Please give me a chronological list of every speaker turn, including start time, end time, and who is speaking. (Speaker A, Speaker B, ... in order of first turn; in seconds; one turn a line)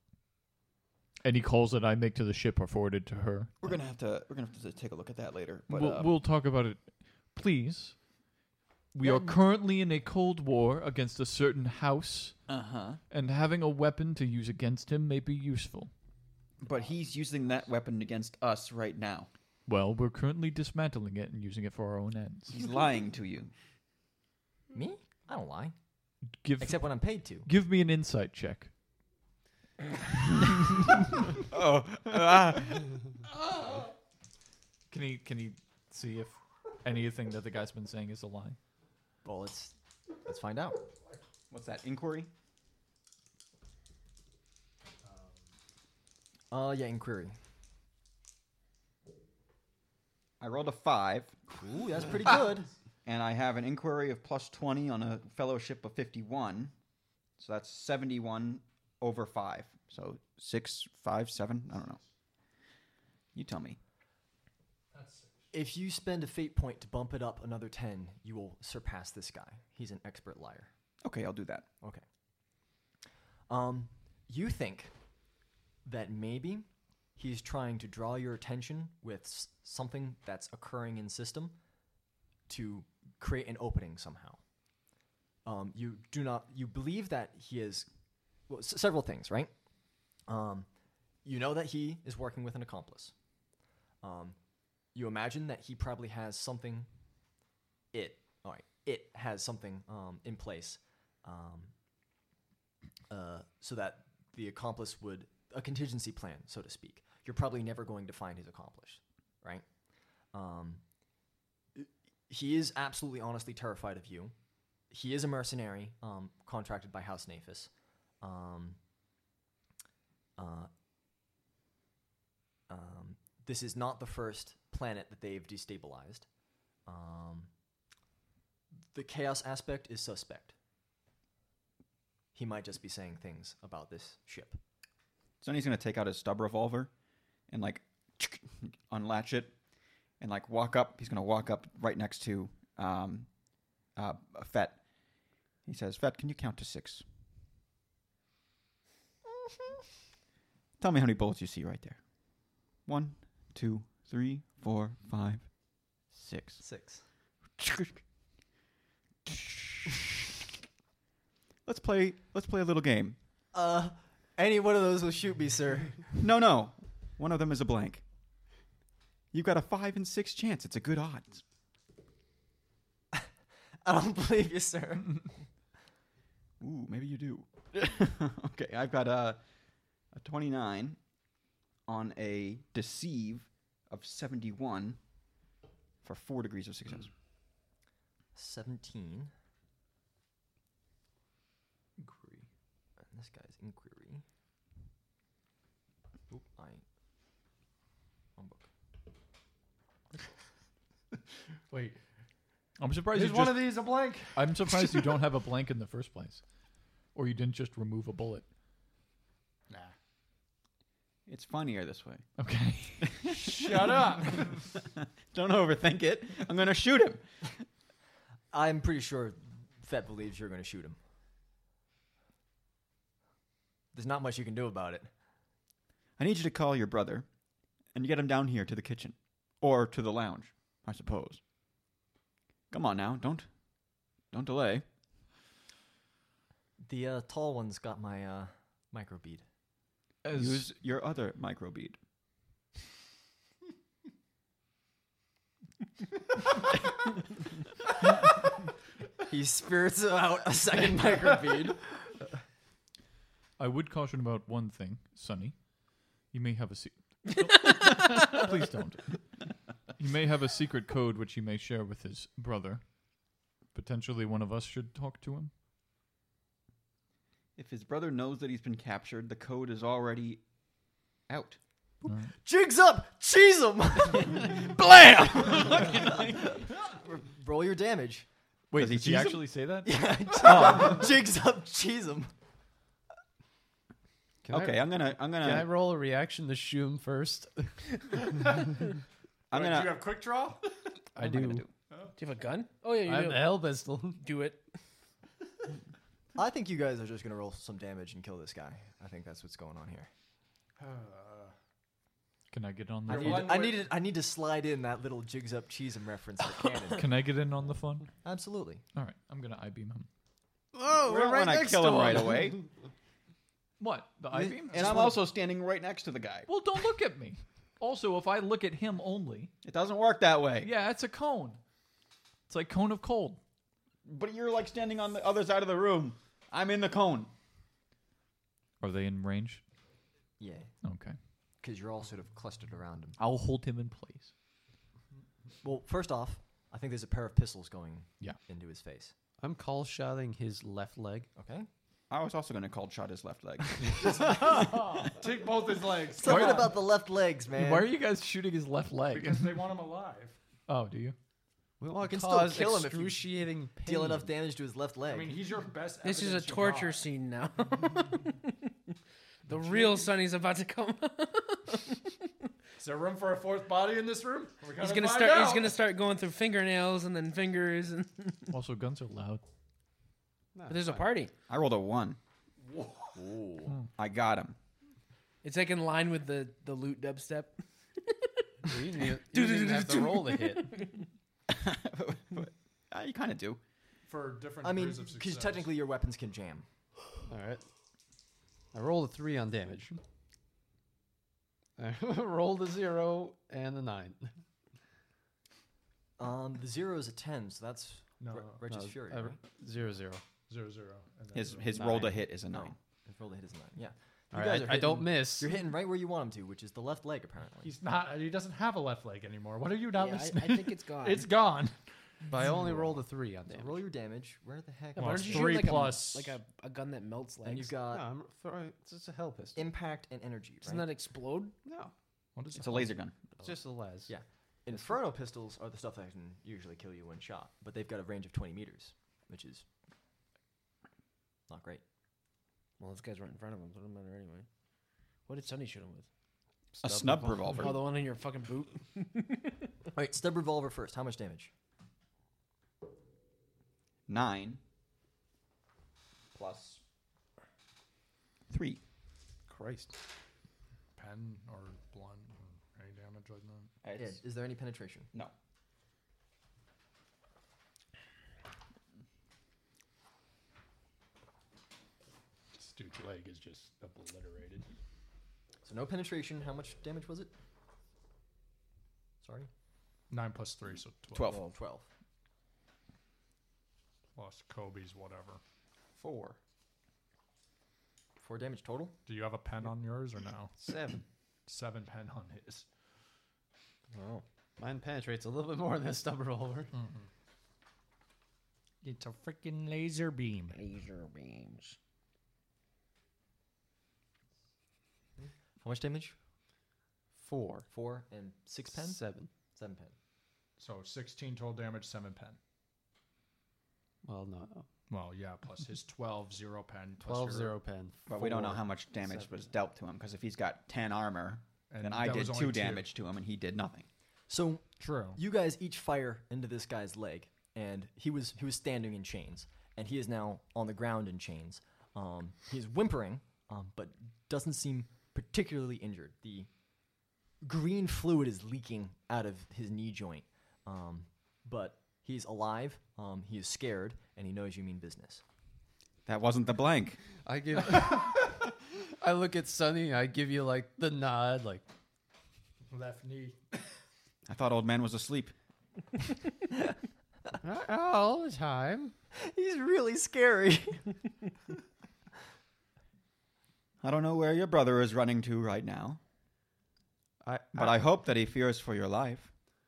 Speaker A: 1.2-3.7
Speaker B: 3.6-6.1
Speaker A: 5.7-8.2
Speaker A: 8.9-12.4
Speaker B: 12.5-13.0
Speaker A: 13.1-15.9
Speaker B: 16.6-19.3
Speaker A: 19.7-22.6
Speaker B: 22.5-23.5
Speaker C: 24.7-25.8
Speaker A: 26.4-28.7
Speaker C: 26.6-27.5
Speaker B: 31.5-33.0
Speaker D: 33.6-33.9
Speaker A: 34.9-38.6
Speaker C: 39.2-40.8
Speaker B: 41.5-42.3
Speaker C: 46.5-47.4
Speaker B: 50.4-51.5
Speaker C: 51.5-52.7
Speaker B: 53.0-56.7
Speaker B: 57.4-62.0
Speaker B: 63.3-63.8
Speaker D: 64.9-65.4
Speaker C: 65.5-70.7
Speaker B: 71.0-71.7
Speaker C: 73.5-74.9
Speaker C: 75.8-81.6
Speaker C: 82.5-84.4
Speaker C: 85.5-87.9
Speaker C: 88.5-89.5
Speaker C: 90.3-90.7
Speaker C: 91.2-93.1
Speaker C: 94.0-94.4
Speaker C: 94.9-96.9
Speaker C: 97.9-101.7
Speaker C: 103.1-109.7
Speaker C: 110.3-110.8
Speaker C: 111.8-114.3
Speaker C: 114.9-117.7
Speaker C: 118.2-118.8
Speaker C: 120.4-120.7
Speaker C: 122.7-126.3
Speaker C: 126.9-127.5
Speaker C: 128.9-130.6
Speaker C: 132.3-134.6
Speaker B: 135.4-136.9
Speaker B: 137.5-139.5
Speaker B: 140.2-143.3
Speaker B: 143.9-144.8
Speaker B: 145.7-147.0
Speaker B: 150.8-152.0
Speaker B: 152.8-155.5
Speaker B: 156.1-156.6
Speaker C: 156.6-157.0
Speaker B: 157.6-158.0
Speaker B: 159.3-159.9
Speaker B: 161.7-163.2
Speaker C: 163.5-166.1
Speaker B: 166.2-168.0
Speaker B: 169.3-171.4
Speaker C: 173.8-175.4
Speaker B: 176.6-179.4
Speaker B: 180.1-181.0
Speaker B: 181.9-185.0
Speaker B: 186.0-187.1
Speaker C: 188.3-189.3
Speaker A: 192.0-192.5
Speaker C: 193.1-194.2
Speaker C: 196.3-196.8
Speaker C: 198.4-198.7
Speaker D: 201.7-202.0
Speaker A: 202.8-206.4
Speaker D: 203.1-205.1
Speaker A: 207.1-208.5
Speaker D: 209.7-209.9
Speaker B: 211.3-212.3
Speaker A: 212.4-213.2
Speaker B: 213.0-214.5
Speaker D: 213.3-214.6
Speaker B: 215.3-217.3
Speaker C: 218.5-221.0
Speaker C: 223.9-225.1
Speaker B: 226.2-227.3
Speaker B: 227.9-231.4
Speaker B: 232.7-233.5
Speaker B: 234.3-234.8
Speaker C: 236.8-239.4
Speaker A: 240.2-240.6
Speaker B: 240.3-242.0
Speaker C: 249.3-252.3
Speaker A: 253.6-255.7
Speaker A: 256.3-259.4
Speaker A: 260.0-262.9
Speaker A: 263.7-265.5
Speaker B: 267.6-270.4
Speaker B: 271.3-271.6
Speaker C: 272.1-274.7
Speaker A: 272.1-272.3
Speaker B: 274.5-276.6
Speaker C: 275.4-278.3
Speaker A: 278.7-279.9
Speaker B: 278.7-279.5
Speaker C: 279.9-282.3
Speaker B: 280.4-281.1
Speaker E: 284.5-287.9
Speaker B: 284.5-285.8
Speaker D: 288.3-288.7
Speaker B: 289.5-290.2
Speaker D: 289.5-290.7
Speaker E: 291.1-291.7
Speaker B: 291.2-291.7
Speaker F: 292.2-294.6
Speaker E: 293.1-294.2
Speaker C: 296.4-300.1
Speaker D: 300.8-301.5
Speaker A: 302.5-303.6
Speaker D: 303.1-303.9
Speaker C: 303.1-307.1
Speaker A: 306.9-308.1
Speaker C: 308.2-308.8
Speaker A: 308.9-310.1
Speaker E: 310.7-312.6
Speaker B: 310.9-312.6
Speaker A: 313.8-315.1
Speaker B: 314.3-316.5
Speaker A: 316.5-319.5
Speaker B: 319.6-320.7
Speaker A: 320.6-321.6
Speaker A: 322.5-323.4
Speaker B: 324.1-327.3
Speaker A: 328.8-329.6
Speaker C: 330.4-330.7
Speaker A: 330.8-331.2
Speaker C: 331.6-333.2
Speaker A: 333.2-334.3
Speaker C: 335.6-339.1
Speaker E: 339.4-341.3
Speaker C: 341.4-341.7
Speaker B: 342.1-345.0
Speaker D: 344.0-346.7
Speaker C: 346.1-347.9
Speaker A: 346.2-346.8
Speaker A: 347.5-349.6
Speaker D: 349.1-350.4
Speaker A: 350.7-351.2
Speaker E: 351.8-354.3
Speaker C: 352.0-353.2
Speaker C: 353.8-355.5
Speaker D: 355.1-357.1
Speaker F: 356.0-358.7
Speaker F: 359.5-362.1
Speaker D: 359.5-360.1
Speaker D: 362.8-365.8
Speaker F: 364.8-368.5
Speaker A: 368.5-369.4
Speaker E: 370.6-371.1
Speaker F: 370.7-371.3
Speaker B: 371.5-372.2
Speaker D: 372.6-373.2
Speaker C: 373.2-373.7
Speaker B: 373.9-374.6
Speaker F: 375.4-381.1
Speaker E: 378.6-380.8
Speaker B: 381.5-383.6
Speaker D: 384.1-385.7
Speaker C: 384.6-386.7
Speaker E: 387.3-387.6
Speaker E: 388.7-390.0
Speaker E: 391.8-394.4
Speaker C: 396.2-399.4
Speaker D: 398.2-398.6
Speaker E: 398.7-400.2
Speaker D: 400.5-401.9
Speaker B: 401.3-402.8
Speaker C: 402.5-407.7
Speaker E: 404.3-405.6
Speaker D: 407.6-411.8
Speaker F: 409.9-411.3
Speaker E: 412.3-413.8
Speaker C: 412.4-415.8
Speaker F: 415.0-417.7
Speaker D: 415.0-416.4
Speaker C: 417.4-418.1
Speaker E: 417.9-419.7
Speaker C: 419.6-420.9
Speaker F: 420.6-421.5
Speaker E: 421.6-421.9
Speaker D: 422.4-423.0
Speaker B: 422.6-423.3
Speaker E: 423.4-424.1
Speaker C: 424.1-429.7
Speaker C: 431.5-431.8
Speaker F: 432.8-434.5
Speaker F: 435.3-436.1
Speaker E: 436.8-437.8
Speaker B: 436.8-437.8
Speaker F: 437.6-439.6
Speaker C: 439.9-441.5
Speaker B: 444.1-444.6
Speaker B: 446.3-446.8
Speaker B: 448.5-448.8
Speaker E: 449.5-449.9
Speaker D: 451.0-453.7
Speaker B: 453.8-454.2
Speaker C: 453.9-455.1
Speaker D: 462.5-464.7
Speaker C: 465.6-467.3
Speaker C: 469.2-469.5
Speaker D: 470.1-471.4
Speaker B: 471.1-471.4
Speaker C: 471.2-471.9
Speaker D: 474.1-475.4
Speaker B: 476.0-476.4
Speaker C: 478.2-479.0
Speaker D: 479.1-480.6
Speaker E: 480.6-481.0
Speaker D: 481.5-482.7
Speaker F: 483.9-484.2
Speaker E: 484.6-486.7
Speaker D: 486.7-487.1
Speaker D: 488.8-490.6
Speaker F: 490.6-491.8
Speaker C: 495.2-496.2
Speaker E: 497.2-497.6
Speaker C: 497.7-499.0
Speaker E: 498.7-499.3
Speaker C: 499.5-499.9
Speaker D: 500.6-502.4
Speaker E: 504.0-504.7
Speaker D: 504.9-507.6
Speaker E: 507.0-509.3
Speaker B: 508.1-513.9
Speaker D: 511.7-512.9
Speaker C: 514.3-526.5
Speaker D: 514.8-515.2
Speaker C: 527.4-535.2
Speaker B: 536.1-537.0
Speaker E: 537.2-541.7
Speaker D: 542.7-543.6
Speaker B: 544.3-545.3
Speaker E: 547.4-549.0
Speaker C: 549.1-550.9
Speaker B: 553.8-556.0
Speaker E: 557.2-557.9
Speaker B: 557.5-559.3